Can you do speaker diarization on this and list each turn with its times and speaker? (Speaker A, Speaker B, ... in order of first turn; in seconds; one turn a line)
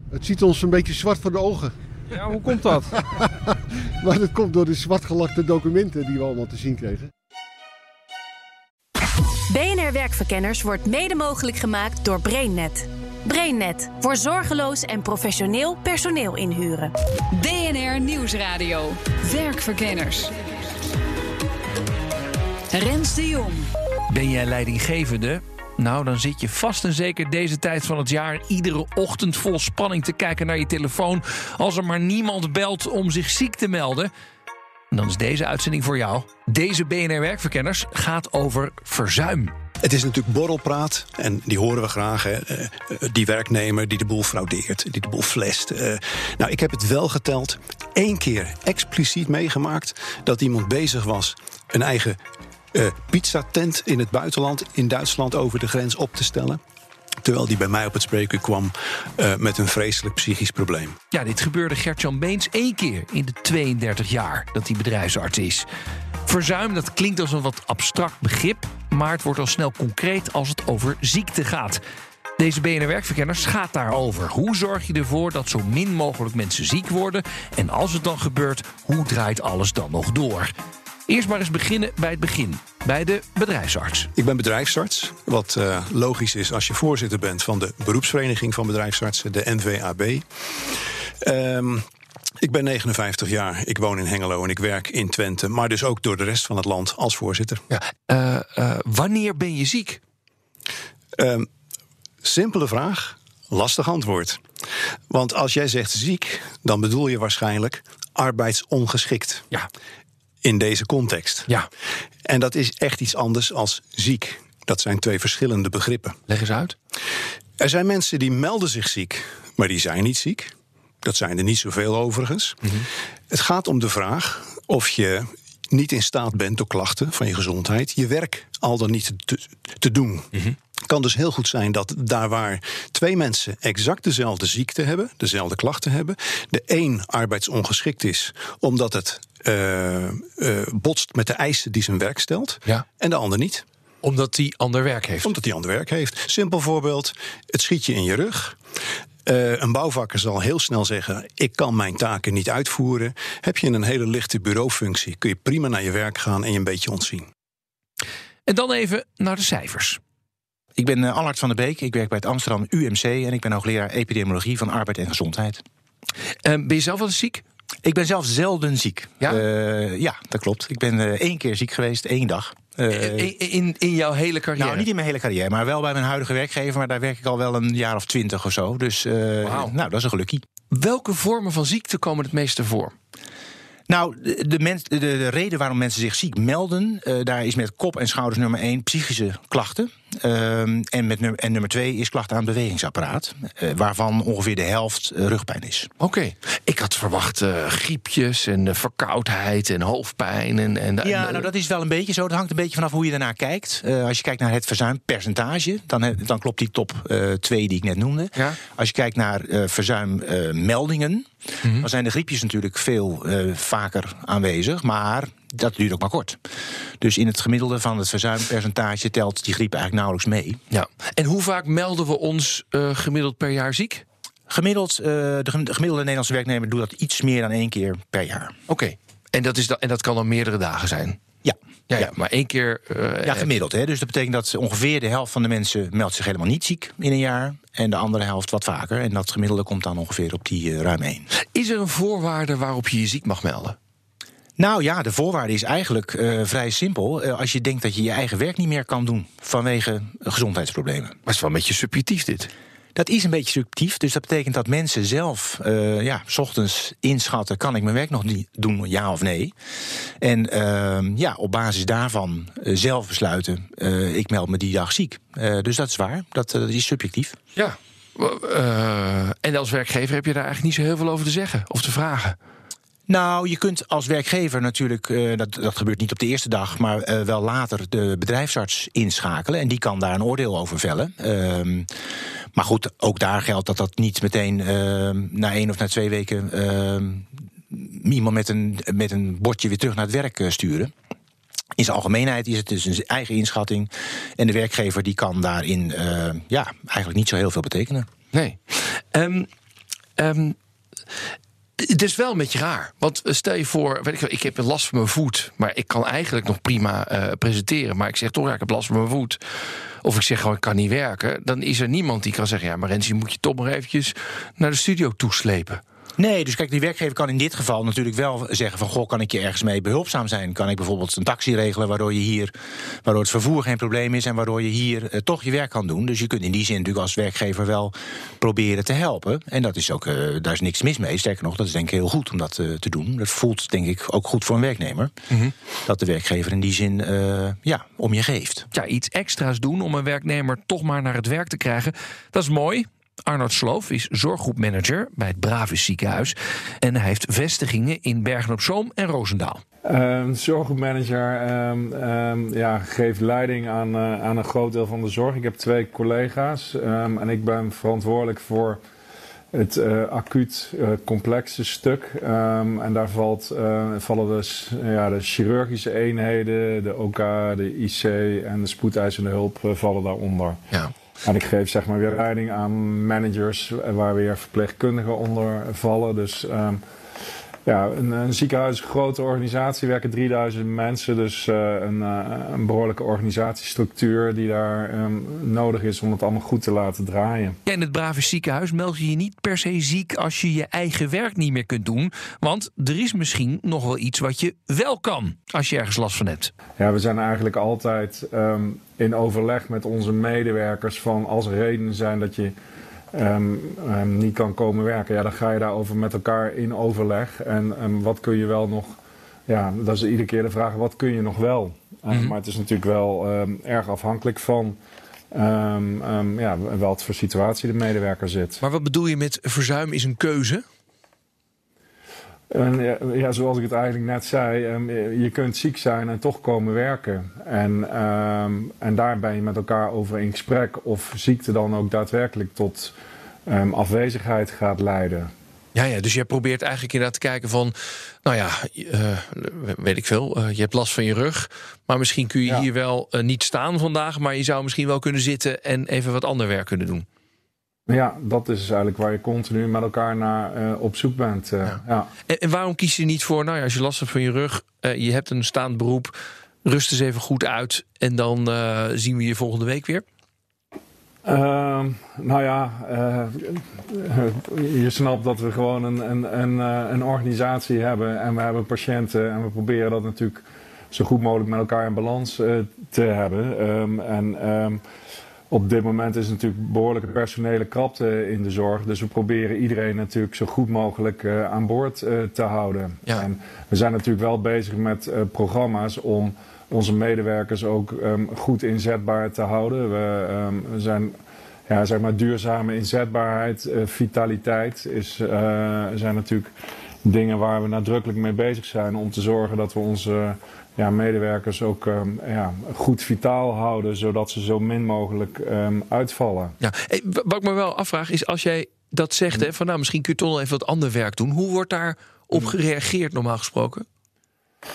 Speaker A: 0.1-1.8
Speaker A: 2.3-3.3
Speaker A: 4.0-7.1
Speaker B: 9.5-16.9
Speaker C: 17.3-20.4
Speaker C: 22.7-23.7
Speaker D: 24.1-34.1
Speaker D: 34.9-39.5
Speaker E: 39.8-52.2
Speaker E: 52.7-56.6
Speaker E: 57.2-61.0
Speaker D: 61.1-65.7
Speaker D: 66.3-71.8
Speaker D: 72.4-80.5
Speaker D: 81.1-84.1
Speaker E: 84.2-91.8
Speaker E: 92.4-97.6
Speaker D: 97.7-100.0
Speaker E: 101.2-101.5
Speaker E: 102.2-104.4
Speaker E: 105.1-109.5
Speaker E: 110.4-111.5
Speaker E: 112.2-116.2
Speaker D: 116.3-116.8
Speaker E: 117.6-122.6
Speaker E: 123.3-130.3
Speaker E: 130.9-143.7
Speaker D: 144.0-145.3
Speaker E: 145.2-148.6
Speaker E: 149.2-157.3
Speaker D: 158.5-160.0
Speaker F: 160.8-165.6
Speaker D: 166.4-167.4
Speaker F: 167.8-173.3
Speaker D: 172.9-174.9
Speaker F: 174.6-180.4
Speaker D: 179.4-179.8
Speaker D: 180.7-182.9
Speaker F: 183.9-195.9
Speaker D: 196.0-201.5
Speaker F: 201.0-216.4
Speaker F: 217.0-220.6
Speaker D: 220.7-224.1
Speaker F: 224.5-228.5
Speaker D: 228.7-231.2
Speaker F: 231.4-232.1
Speaker D: 231.9-233.5
Speaker F: 233.2-241.3
Speaker D: 241.3-243.8
Speaker F: 244.6-251.2
Speaker D: 251.3-252.5
Speaker F: 252.9-259.5
Speaker F: 260.2-267.4
Speaker D: 267.6-272.4
Speaker F: 273.1-281.9
Speaker F: 282.5-290.9
Speaker F: 291.8-298.1
Speaker D: 298.3-299.5
Speaker D: 300.2-300.6
Speaker D: 301.1-309.4
Speaker D: 310.0-315.8
Speaker F: 316.2-335.1
Speaker F: 335.9-338.7
Speaker D: 338.7-349.6
Speaker G: 349.9-358.8
Speaker G: 359.5-370.6
Speaker G: 371.2-376.8
Speaker G: 377.6-387.6
Speaker D: 387.7-396.5
Speaker G: 396.8-402.6
Speaker G: 403.1-414.8
Speaker G: 415.3-418.6
Speaker D: 418.6-420.6
Speaker G: 422.5-432.9
Speaker G: 433.5-435.3
Speaker D: 435.8-447.1
Speaker G: 447.9-452.1
Speaker D: 451.7-460.1
Speaker G: 461.2-474.8
Speaker G: 475.5-491.1
Speaker G: 491.7-496.5
Speaker G: 497.0-506.6
Speaker D: 506.6-513.9